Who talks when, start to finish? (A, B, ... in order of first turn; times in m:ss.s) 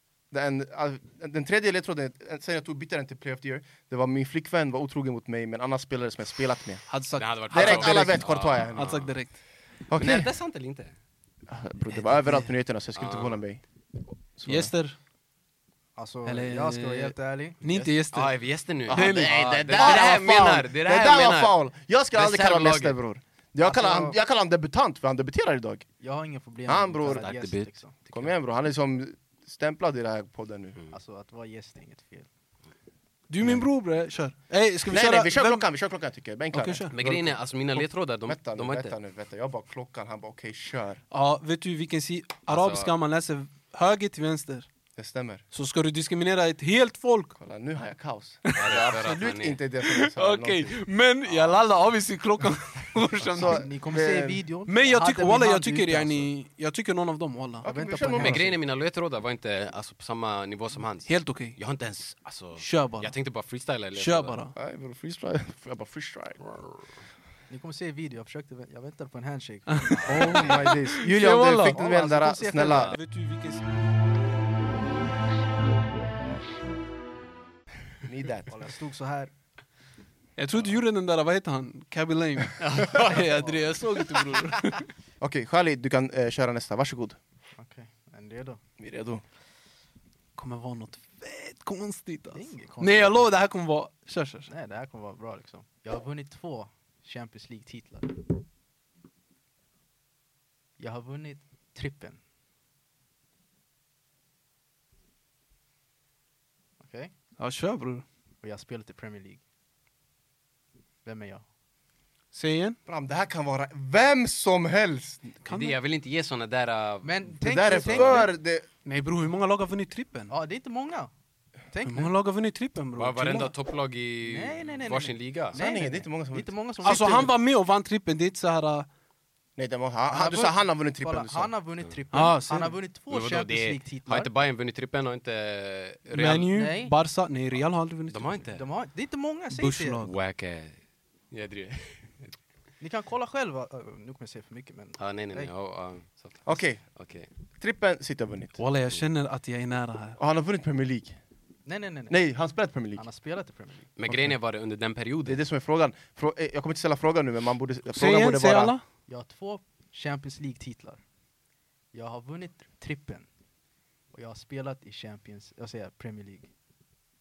0:00.3-0:06.9 A
0:06.9-0:09.4 B
0:07.2-0:09.1 C
0:07.5-0:08.9 A
0:09.9-0:10.3 A
0:09.9-0:10.9 C
0:11.5-0:13.6 A
0:13.0-0:13.4 C
0:14.2-0:14.7 A
0:14.5-0:15.0 B
0:16.0-0:17.6 D
0:16.2-0:18.4 B
0:18.1-0:21.6 C
0:18.9-0:25.9 A
0:18.9-0:19.9 B
0:22.1-0:23.0 C
0:23.6-0:24.2 D
0:26.0-0:27.9 D
0:26.6-0:27.3 A
0:27.2-0:28.3 C
0:28.1-0:30.8 A
0:30.9-0:32.3 D
0:33.3-0:35.6 B
0:33.4-0:33.6 A
0:34.9-0:41.0 A
0:36.5-0:36.9 B
0:36.9-0:38.9 C
0:41.1-0:44.7 B
0:42.5-0:42.9 C
0:45.0-0:45.4 A
0:45.5-0:47.3 B
0:47.4-0:50.7 A
0:48.4-0:48.8 B
0:48.6-0:49.6 C
0:49.9-0:53.6 B
0:53.2-0:54.4 A
0:53.4-0:56.3 D
0:54.7-0:57.6 B
0:57.6-0:58.5 A
0:57.6-0:58.6 D
0:58.1-1:04.4 C
1:01.1-1:01.6 B
1:02.6-1:03.1 B
1:03.9-1:04.5 B
1:04.6-1:06.4 A
1:07.5-1:10.6 D
1:09.7-1:11.8 B
1:10.1-1:12.9 A
1:11.7-1:12.9 D
1:12.9-1:13.6 B
1:18.0-1:18.5 A
1:18.5-1:19.3 D
1:20.4-1:24.8 B
1:22.6-1:23.4 C
1:25.2-1:27.2 A
1:27.6-1:28.6 D
1:28.8-1:29.2 A
1:30.4-1:34.5 B
1:32.3-1:33.3 D
1:34.5-1:38.2 D
1:40.8-1:42.2 D
1:46.8-1:47.1 D
1:47.4-1:48.0 B
1:48.4-1:49.4 D
1:51.0-1:51.4 D
1:52.3-1:52.8 B
1:52.9-1:55.2 A
1:55.4-1:55.8 B
1:55.5-1:58.3 C
1:57.0-1:58.3 D
1:57.4-1:58.7 A
1:58.8-2:00.3 B
2:00.3-2:01.1 D
2:01.7-2:02.1 D
2:01.8-2:03.5 B
2:03.0-2:05.6 C
2:04.3-2:07.3 D
2:05.5-2:07.3 A
2:06.8-2:08.9 B
2:09.6-2:11.5 A
2:10.1-2:14.3 D
2:12.1-2:12.8 B
2:13.1-2:16.5 C
2:16.1-2:18.4 B
2:16.5-2:16.9 D
2:18.1-2:18.6 C
2:18.5-2:20.0 D
2:19.5-2:20.1 B
2:20.0-2:20.8 C
2:21.3-2:22.4 C
2:22.8-2:25.5 D
2:25.0-2:27.3 C
2:26.4-2:26.8 A
2:27.6-2:28.6 A
2:28.6-2:30.2 B
2:30.2-2:31.2 A
2:31.6-2:32.2 D
2:32.1-2:33.0 A
2:33.0-2:33.9 D
2:34.0-2:35.4 C
2:34.1-2:34.4 A
2:35.3-2:38.7 A
2:37.9-2:38.8 B
2:39.1-2:41.0 D
2:41.9-2:43.3 D
2:44.1-2:46.5 D